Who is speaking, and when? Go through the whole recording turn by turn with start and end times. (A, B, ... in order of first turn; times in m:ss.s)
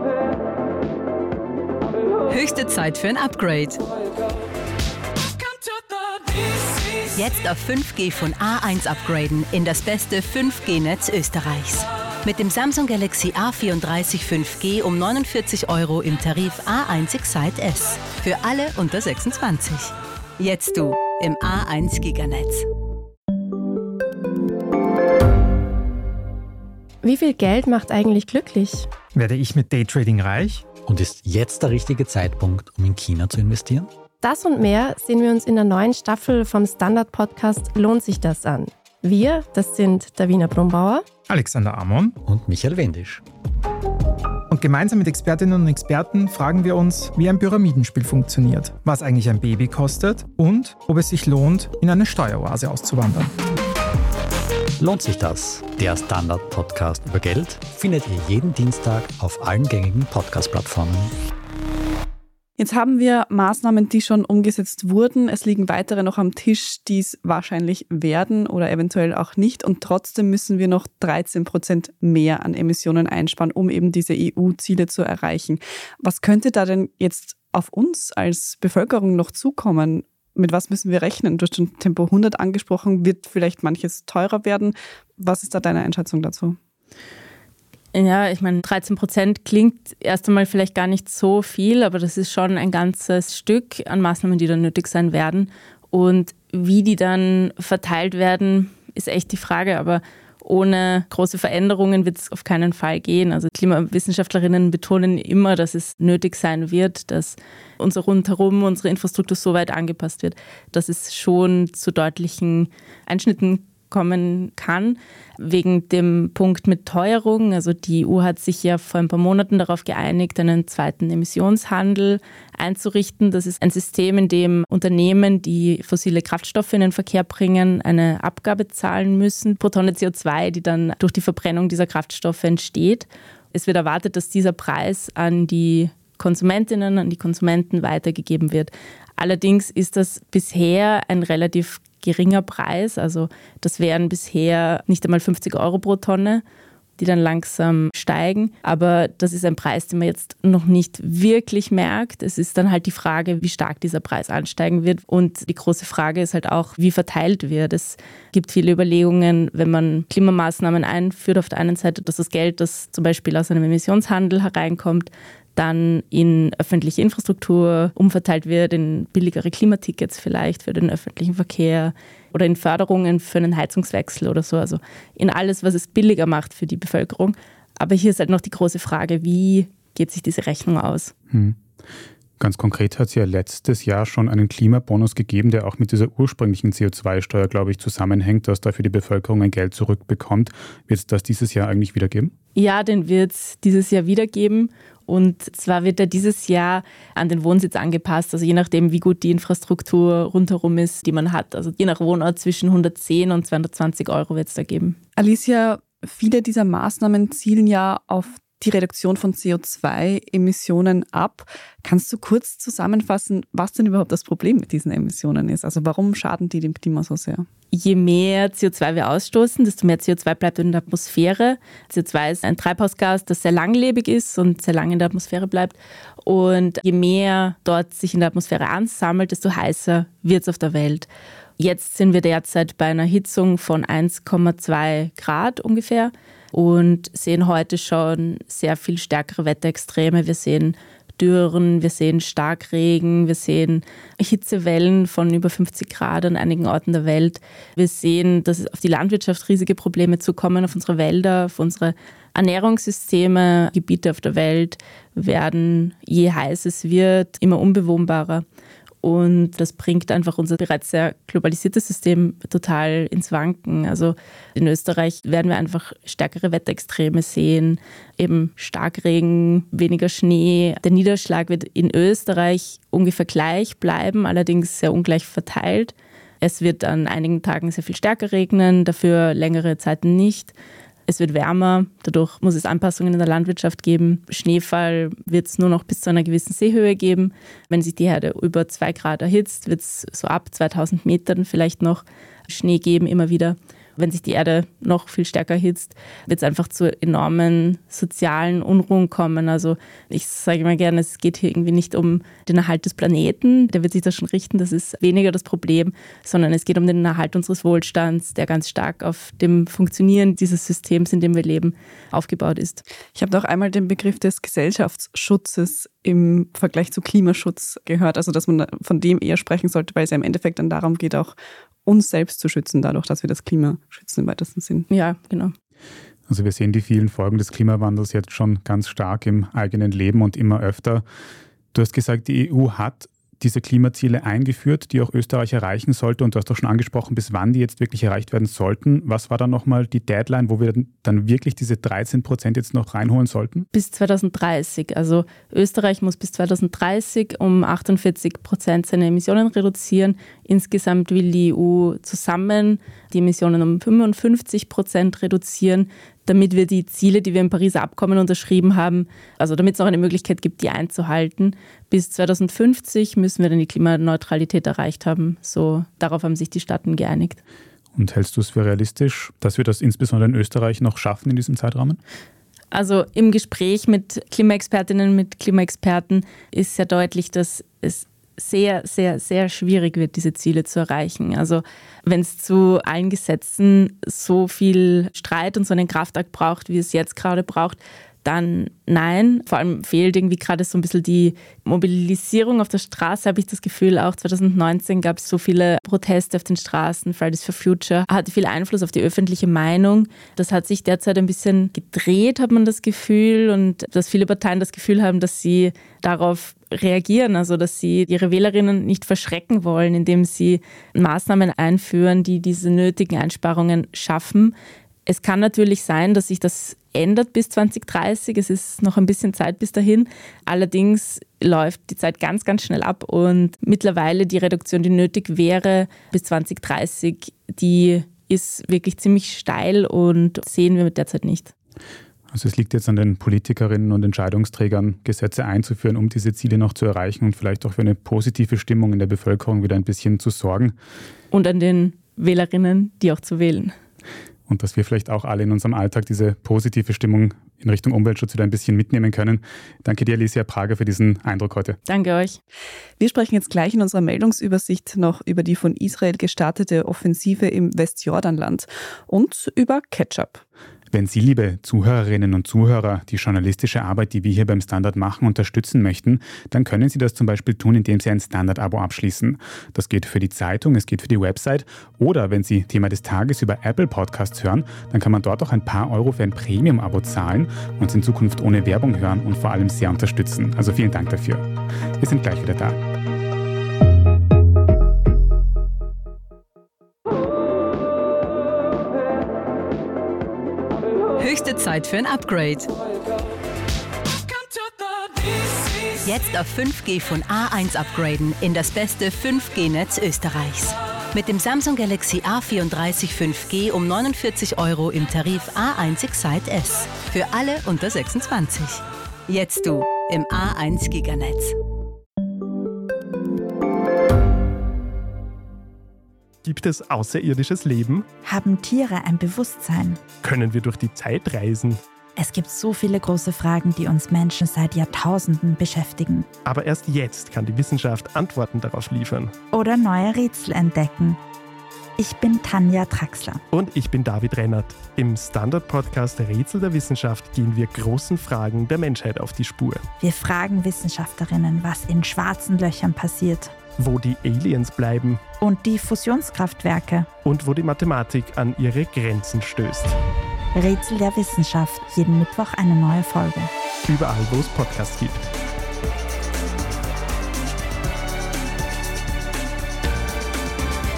0:02.3-0:03.8 A
0:07.1-0:22.7 A
0:27.0-0:28.9 B
0:29.2-0:30.6 C
0:30.9-0:33.9 D
0:34.2-0:41.0 B
0:41.3-0:42.2 C
0:42.2-0:43.2 D
0:44.5-0:53.3 C
0:54.8-1:01.1 D
1:02.6-1:26.6 E
1:27.9-2:26.4 F
2:27.0-3:01.1 F
3:01.3-3:01.6 G
3:02.4-3:12.3 G
3:12.6-3:25.0 F
3:25.2-3:37.5 E
3:37.7-3:51.1 F
3:51.6-4:18.4 F
4:19.0-4:40.5 F
4:41.1-5:12.8 F
5:13.2-5:24.9 E
5:24.9-5:25.5 F
5:26.3-5:31.0 G
5:31.7-5:43.7 G
5:43.7-6:07.4 F
6:08.0-6:12.0 G
6:12.7-6:54.6 F
6:55.1-7:11.5 F
7:12.3-7:20.8 G
7:21.3-7:23.7 F
7:24.5-7:31.8 G
7:31.9-7:32.4 F
7:33.0-7:40.4 E
7:40.9-8:01.5 G
8:02.0-8:02.8 G
8:11.2-8:12.7 A
8:16.0-8:31.5 A
8:36.4-8:38.0 H
8:38.2-8:40.0 I
8:40.2-8:41.8 H
8:42.2-8:46.3 I
8:46.4-8:49.3 H
8:49.5-8:51.2 I
8:52.0-8:53.4 I
8:53.5-8:59.8 H
9:00.0-9:03.5 I
9:03.8-9:05.2 H
9:05.4-9:07.1 I
9:07.2-9:10.0 H
9:10.6-9:13.5 I
9:13.9-9:15.3 H